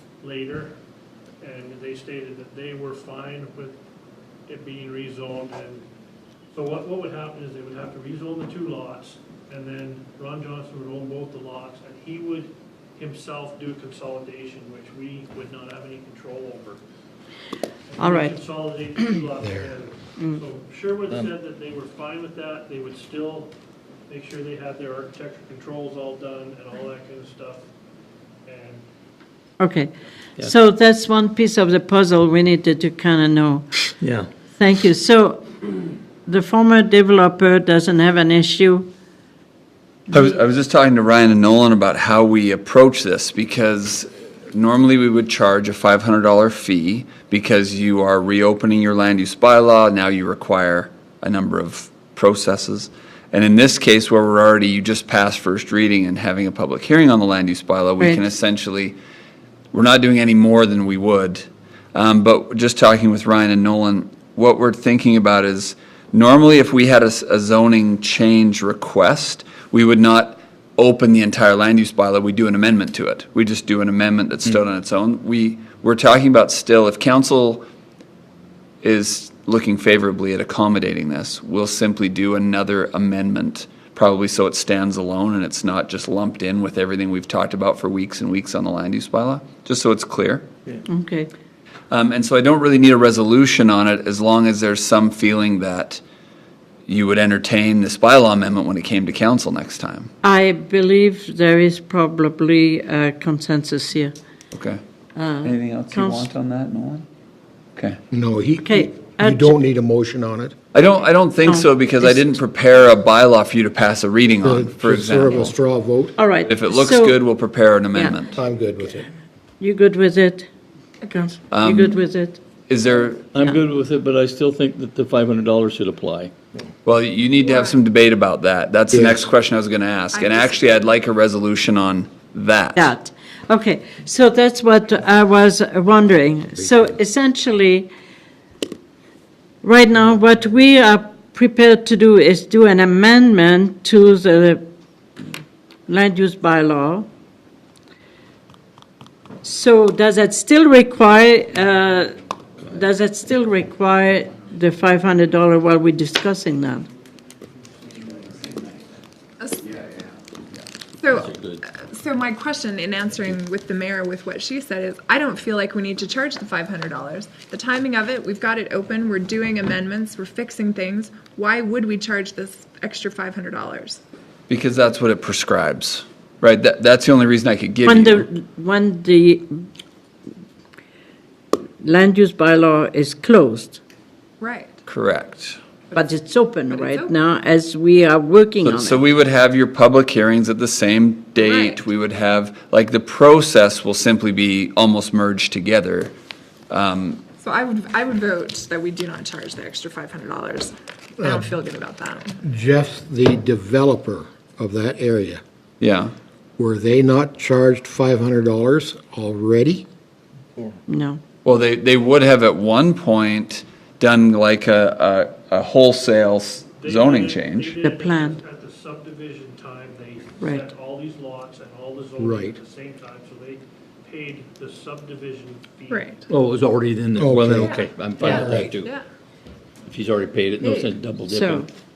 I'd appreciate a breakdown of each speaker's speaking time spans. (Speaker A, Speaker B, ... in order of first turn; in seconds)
Speaker A: 0.2-0.8, 1.4-3.8, 4.5-5.8, 6.5-16.8, 17.9-23.5, 24.1-27.6, 28.4-28.9, 216.8-226.2
Speaker B: 18.0-18.4, 29.6-33.8, 34.5-35.6, 36.2-38.9, 58.0-58.3, 90.9-91.3, 100.2-104.1, 105.2-106.3, 108.6-109.5, 111.5-112.3, 116.2-117.2, 117.9-118.2, 119.6-120.5, 121.1-122.4, 132.8-137.9, 139.6-144.6, 145.9-147.1, 149.4-152.1, 152.7-156.8, 177.8-179.6, 181.8-183.8, 185.9-189.0, 210.9-211.2, 217.8-218.4, 220.4-220.7, 231.3-231.7
Speaker C: 19.4-19.7, 108.1-110.5, 114.4-116.2, 118.3-119.1, 128.9-129.2, 201.2-201.5, 202.4-205.4, 206.6-209.8, 222.2-222.6, 227.2-228.7
Speaker D: 34.0-34.3, 123.3-126.7, 161.1-161.6, 226.3-228.9, 229.9-231.7
Speaker E: 40.1-59.0, 59.7-61.4, 61.9-77.7, 78.8-90.5, 91.9-96.0, 96.9-100.1, 104.5-104.8, 105.4-107.0, 110.7-115.5, 116.5-118.4, 121.5-121.9, 122.7-123.3, 126.8-132.9, 174.5-178.3, 184.8-185.6, 188.6-196.1, 196.7-197.2, 205.8-206.1, 211.4-217.8
Speaker F: 121.0-121.3, 127.4-127.8, 130.1-130.8, 159.4-159.7, 161.0-174.0, 184.4-184.8, 186.7-187.1, 191.4-191.8, 197.4-202.4, 225.9-226.2, 227.6-227.9, 228.7-229.0, 230.6-230.9